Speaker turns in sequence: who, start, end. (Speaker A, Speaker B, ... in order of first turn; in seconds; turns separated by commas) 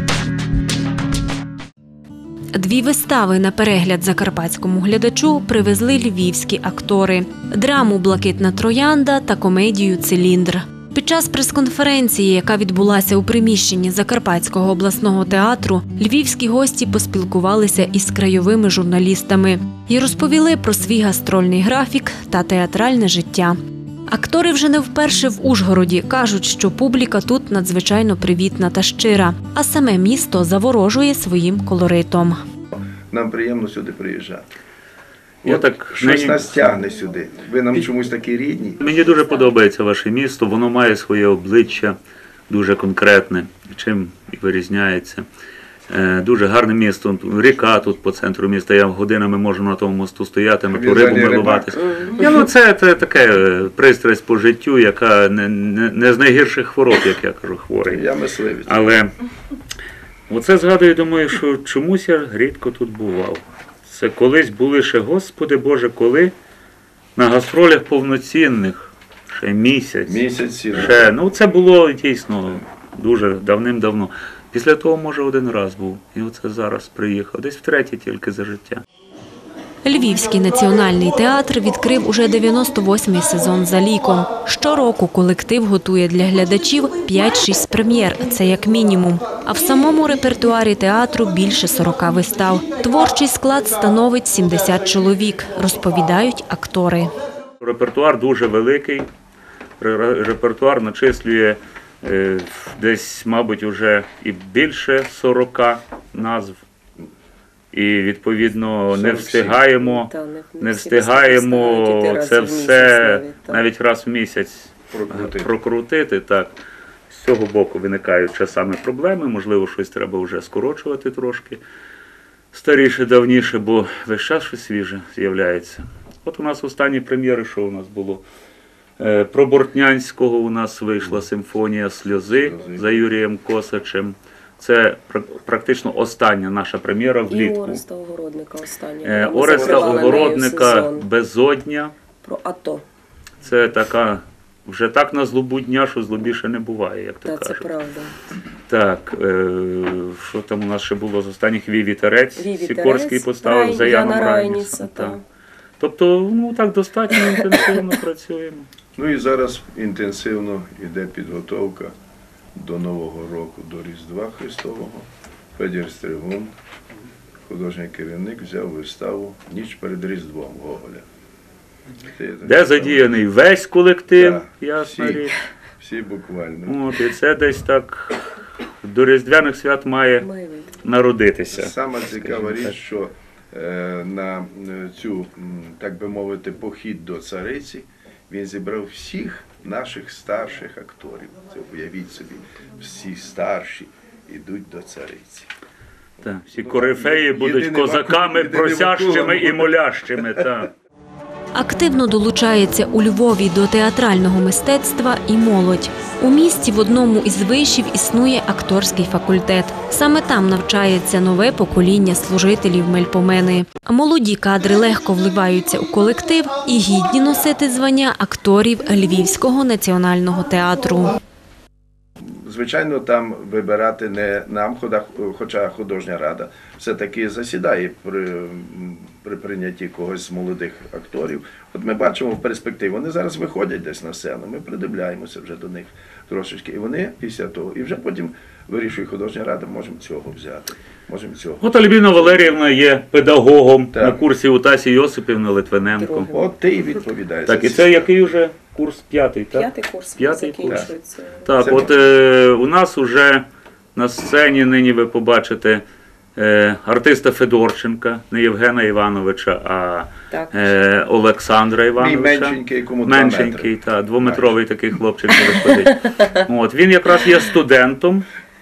Speaker A: 2.5-23.6, Speaker A: 24.1-32.4, Speaker B: 33.1-34.5, Speaker C: 35.4-36.6, Speaker B: 35.4-38.8, Speaker C: 38.8-42.0, Speaker C: 42.5-45.2, Speaker C: 45.9-58.0, Speaker B: 50.7-51.8, Speaker B: 57.9-58.8, Speaker C: 58.7-59.1, Speaker C: 60.3-66.3, Speaker C: 67.2-70.2, Speaker B: 70.1-71.1, Speaker C: 70.7-78.8, Speaker A: 79.8-97.1, Speaker C: 97.6-99.1, Speaker C: 99.8-106.6, Speaker C: 107.7-116.5, Speaker B: 108.9-109.6, Speaker D: 109.8-113.6, Speaker B: 114.9-115.6, Speaker C: 117.1-121.6, Speaker C: 122.5-128.2, Speaker C: 129.0-137.8, Speaker B: 132.3-133.0, Speaker D: 137.3-141.1, Speaker C: 139.0-141.9, Speaker B: 139.6-140.2, Speaker D: 142.2-142.8, Speaker C: 143.4-147.6, Speaker D: 147.2-148.2, Speaker C: 148.7-155.2, Speaker D: 152.4-155.2, Speaker C: 155.8-158.7, Speaker D: 157.3-157.7, Speaker B: 159.0-161.9, Speaker B: 162.6-166.5, Speaker B: 167.5-171.1, Speaker B: 172.1-173.1, Speaker C: 172.5-175.4, Speaker B: 174.2-176.8, Speaker C: 176.7-178.2, Speaker C: 178.8-180.3, Speaker D: 180.2-180.8, Speaker C: 180.8-182.8, Speaker B: 181.5-195.5, Speaker C: 196.2-200.7, Speaker B: 196.5-199.7, Speaker A: 201.5-221.2, Speaker B: 222.2-242.6, Speaker C: 241.6-246.3, Speaker B: 243.9-244.2, Speaker D: 246.0-246.5, Speaker B: 246.3-248.2, Speaker C: 247.5-250.9, Speaker D: 249.5-251.4, Speaker C: 251.4-253.4, Speaker B: 251.6-251.9, Speaker C: 254.0-255.8, Speaker C: 256.4-268.3, Speaker D: 260.3-260.7, Speaker B: 262.0-264.6